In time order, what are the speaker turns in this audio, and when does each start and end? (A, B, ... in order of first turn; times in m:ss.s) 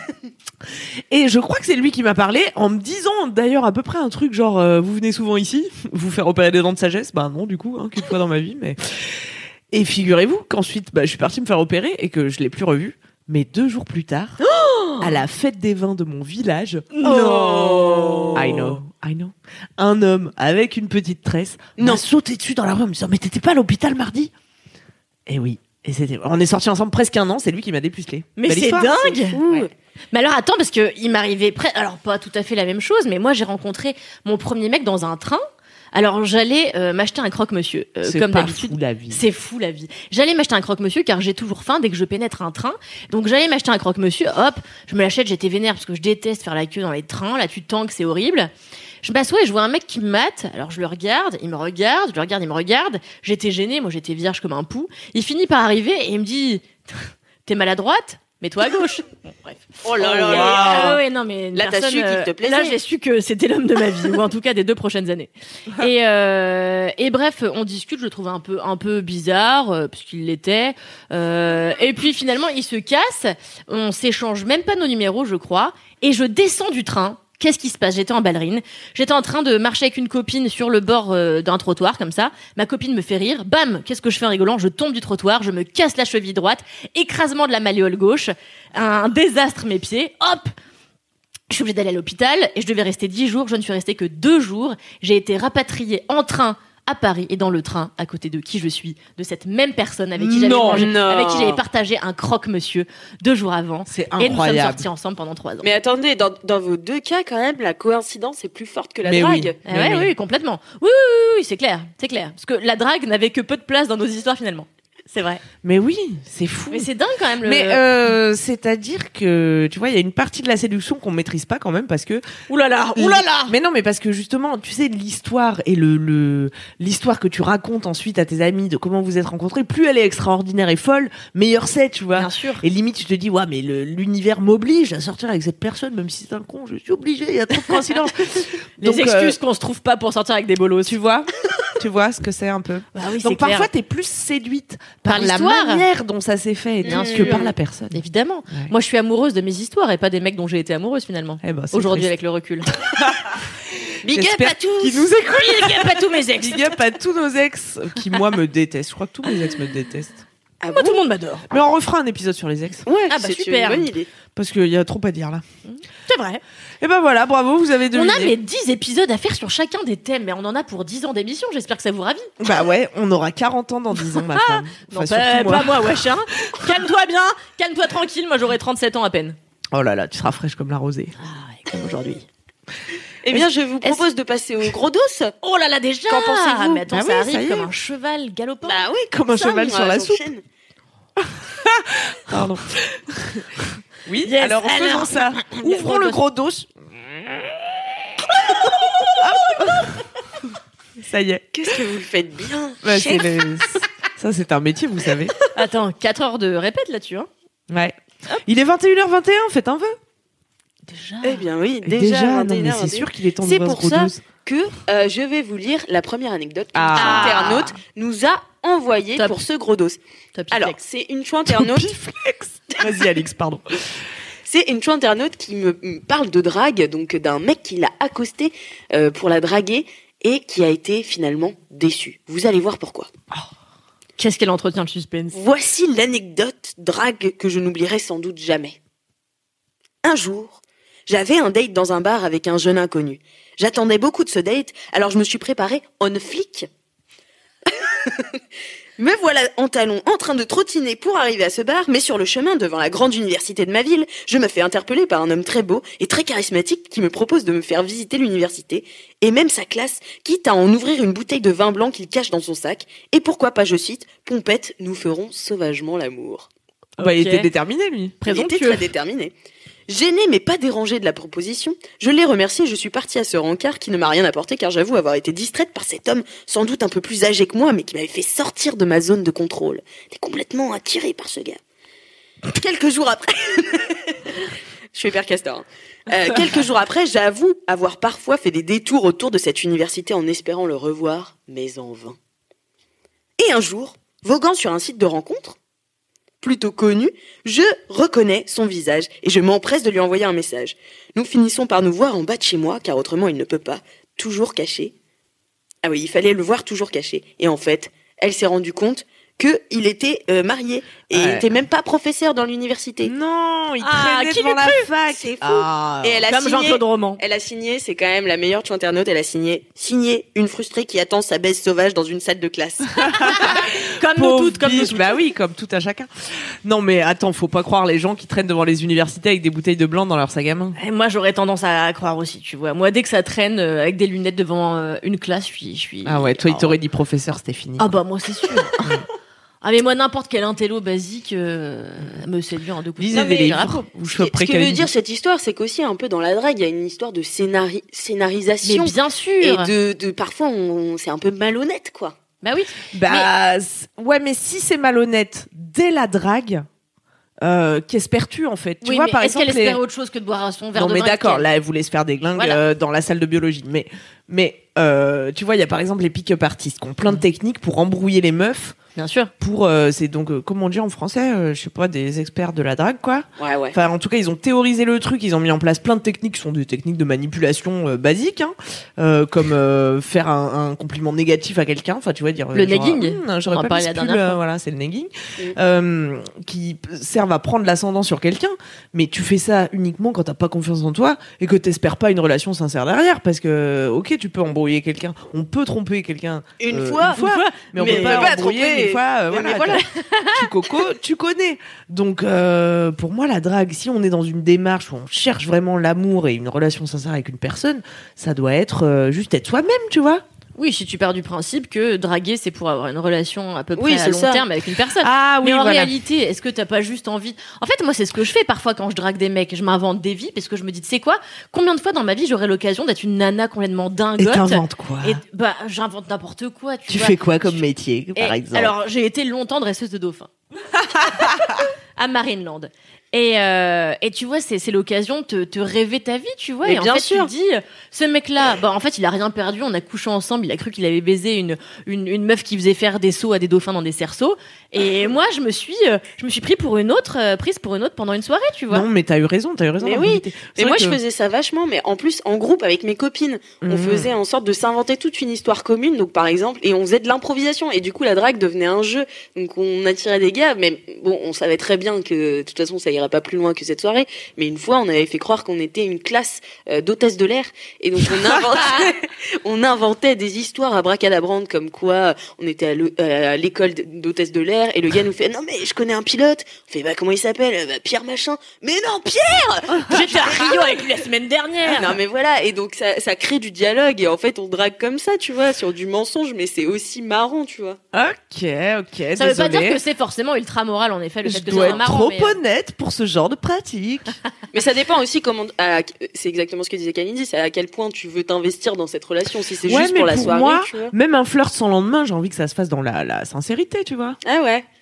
0:01.1-0:14.4 A
0:14.4-0:15.1 B
0:15.0-0:17.4 A
0:16.9-0:18.6 B
0:17.0-0:18.8 C
0:18.4-0:24.3 A
0:21.8-0:22.0 C
0:25.3-0:29.6 A
0:28.4-0:29.4 B
0:29.1-0:29.7 C
0:30.1-0:48.5 B
0:38.0-0:39.2 A
0:49.0-1:30.5 B
0:59.8-1:01.0 C
1:00.0-1:01.0 A
1:01.6-1:02.8 C
1:31.5-1:45.7 B
1:40.2-1:41.1 A
1:40.7-1:41.6 C
1:43.9-1:44.8 A
1:45.6-1:49.6 C
1:49.0-1:50.1 A
1:49.7-1:55.4 B
1:55.6-1:56.9 A
1:56.7-1:57.8 B
1:57.4-2:02.3 A
2:02.5-2:03.6 B
2:03.0-2:19.4 A
2:12.1-2:12.6 B
2:18.8-2:21.0 B
2:20.9-2:28.0 A
2:22.9-2:23.7 B
2:25.1-2:25.9 B
2:26.8-2:27.5 C
2:26.8-2:32.7 B
2:31.4-2:32.1 A
2:32.9-2:33.4 A
2:34.0-2:35.1 C
2:34.1-2:40.2 A
2:35.2-2:36.7 B
2:40.6-2:41.0 C
2:40.7-2:41.5 B
2:41.5-2:42.8 A
2:42.9-2:44.1 C
2:43.1-2:43.9 B
2:44.3-2:45.4 A
2:45.7-2:46.4 B
2:46.8-2:48.3 A
2:47.9-2:52.3 B
2:52.4-2:56.0 A
2:54.0-2:59.4 B
2:59.7-3:01.2 A
3:01.2-3:02.2 B
3:03.2-3:05.3 C
3:05.4-3:08.8 B
3:06.1-3:06.8 C
3:06.9-3:07.7 A
3:08.6-3:10.4 C
3:09.1-3:10.2 A
3:11.2-3:17.6 A
3:14.2-3:16.2 B
3:19.2-3:20.1 A
3:21.0-3:21.5 A
3:21.5-3:23.5 C
3:22.8-3:25.4 A
3:25.5-3:27.3 B
3:27.7-3:30.0 A
3:30.9-3:31.4 B
3:31.2-3:40.0 C
3:31.8-3:34.2 A
3:36.8-3:37.7 A
3:37.0-3:37.7 B
3:40.4-3:40.8 B
3:40.5-3:41.9 C
3:41.5-3:43.8 A
3:44.5-3:53.1 C
3:54.2-3:55.4 B
3:55.3-3:58.8 C
4:00.0-4:06.7 C
4:08.0-4:08.3 C
4:09.0-4:26.5 C
4:27.0-4:27.5 B
4:27.0-4:28.2 A
4:28.2-4:28.9 B
4:28.3-4:29.3 C
4:29.9-4:41.6 C
4:42.5-4:52.2 C
4:53.4-4:55.6 C
4:56.4-5:04.9 C
5:05.8-5:13.1 C
5:11.1-5:11.4 A
5:13.0-5:16.2 A
5:13.8-5:14.9 B
5:15.1-5:23.4 C
5:16.3-5:17.2 B
5:23.0-5:30.8 A
5:23.2-5:25.2 B
5:30.8-5:36.8 B
5:36.0-5:37.9 A
5:37.8-5:38.9 B
5:39.6-5:43.8 B
5:43.0-5:44.9 A
5:44.1-5:52.2 C
5:48.6-5:49.7 B
5:52.4-5:53.3 B
5:52.9-5:56.7 A
5:57.4-5:59.8 A
5:58.8-6:01.5 B
6:00.8-6:08.8 A
6:09.0-6:09.3 B
6:09.4-6:50.2 A
6:13.4-6:13.8 C
6:22.5-6:24.4 B
6:36.6-6:39.8 C
6:37.1-6:38.4 B
6:39.9-6:40.4 B
6:50.6-7:10.3 B
6:53.8-6:54.4 C
6:55.0-6:55.9 A
7:04.2-7:05.2 A
7:06.9-7:08.7 A
7:11.3-7:11.6 A
7:12.0-7:28.9 B
7:16.6-7:17.3 C
7:28.7-7:31.0 A
7:29.8-8:00.6 C
7:33.6-7:34.1 A
7:59.9-8:02.0 B
8:01.7-8:07.8 C
8:07.9-8:09.8 A
8:09.2-8:12.4 B
8:11.2-8:14.2 A
8:11.5-8:11.8 C
8:14.5-8:20.9 C
8:19.7-8:24.2 A
8:24.2-8:24.6 C